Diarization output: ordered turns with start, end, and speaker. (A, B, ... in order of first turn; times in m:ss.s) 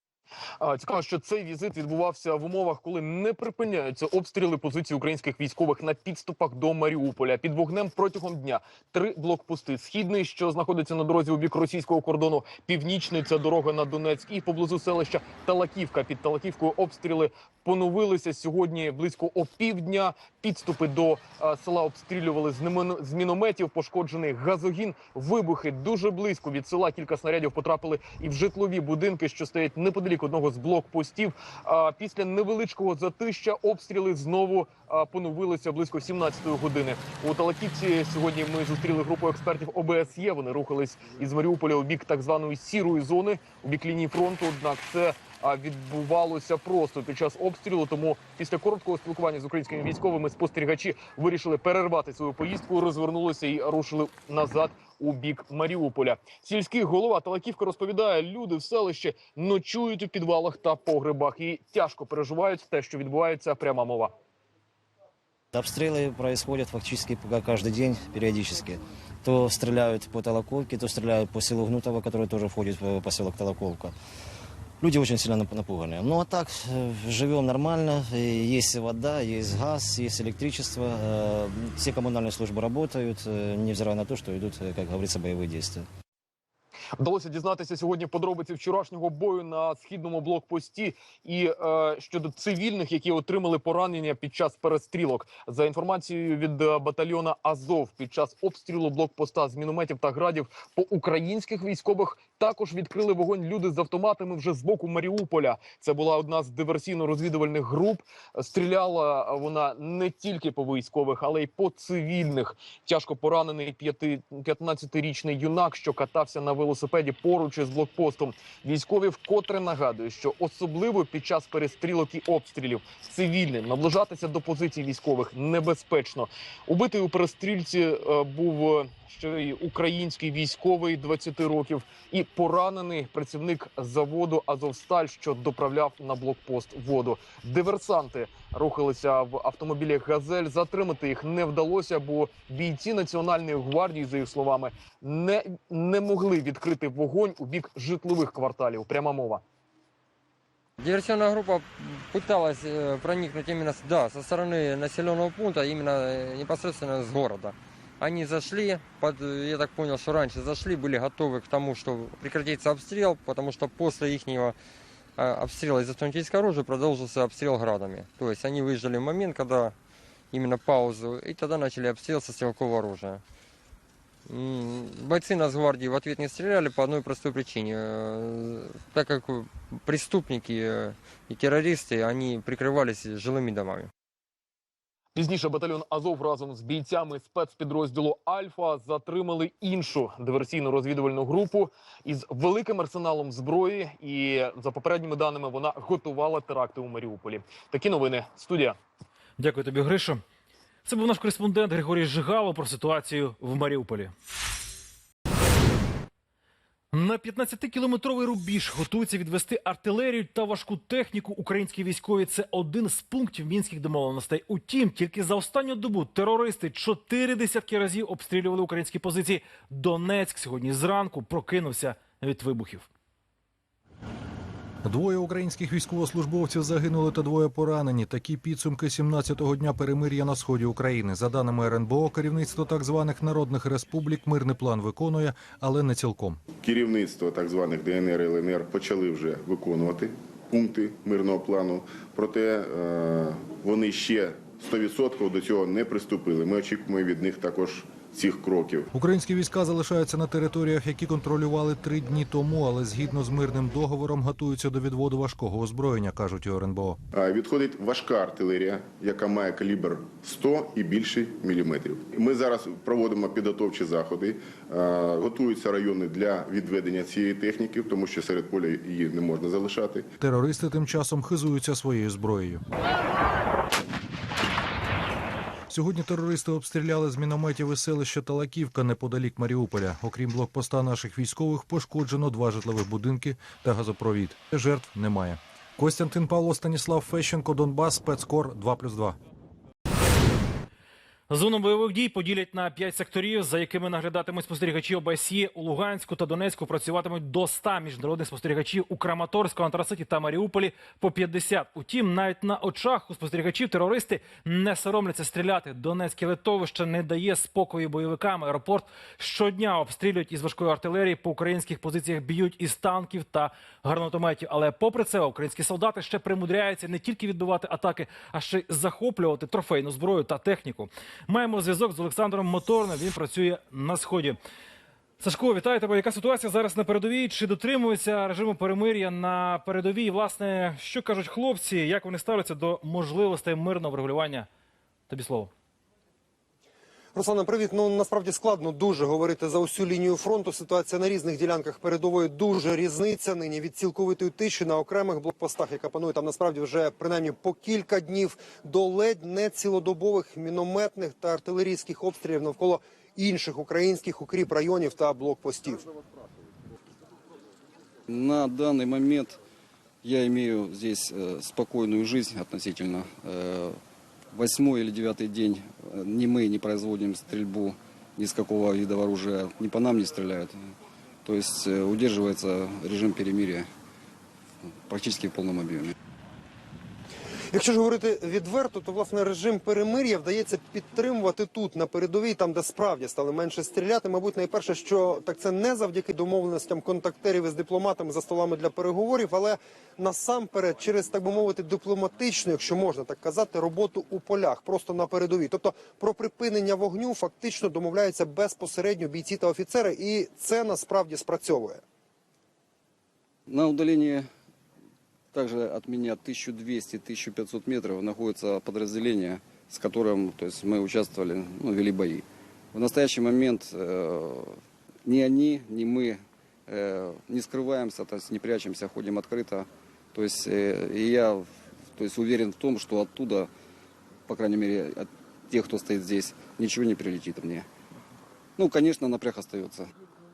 0:00.6-1:04.1 A
1:05.5-1:13.9 B
1:14.8-1:25.9 B
1:27.0-2:29.4 A
2:30.8-2:44.6 C
2:45.2-2:49.8 C
2:50.3-2:53.2 C
2:54.3-3:03.9 C
3:05.2-3:18.8 A
3:19.4-3:20.2 D
3:20.8-3:24.1 D
3:26.9-3:42.9 D
3:44.8-3:56.4 E
3:56.6-4:08.9 F
4:08.9-4:17.0 E
4:17.1-4:30.1 F
4:30.2-4:32.6 E
4:35.7-4:49.2 E
4:51.3-5:24.4 D
5:25.2-5:34.5 D
5:35.1-5:35.5 D
5:37.2-5:55.9 G
5:58.1-5:59.4 H
6:00.0-6:03.8 H
6:04.3-6:10.6 H
6:11.3-6:13.7 H
6:14.8-6:15.9 H
6:17.5-6:41.8 G
6:43.5-6:44.3 H
6:45.3-6:52.2 H
6:52.7-6:54.5 H
6:55.0-7:03.5 H
7:04.3-7:07.7 H
7:08.6-7:09.9 H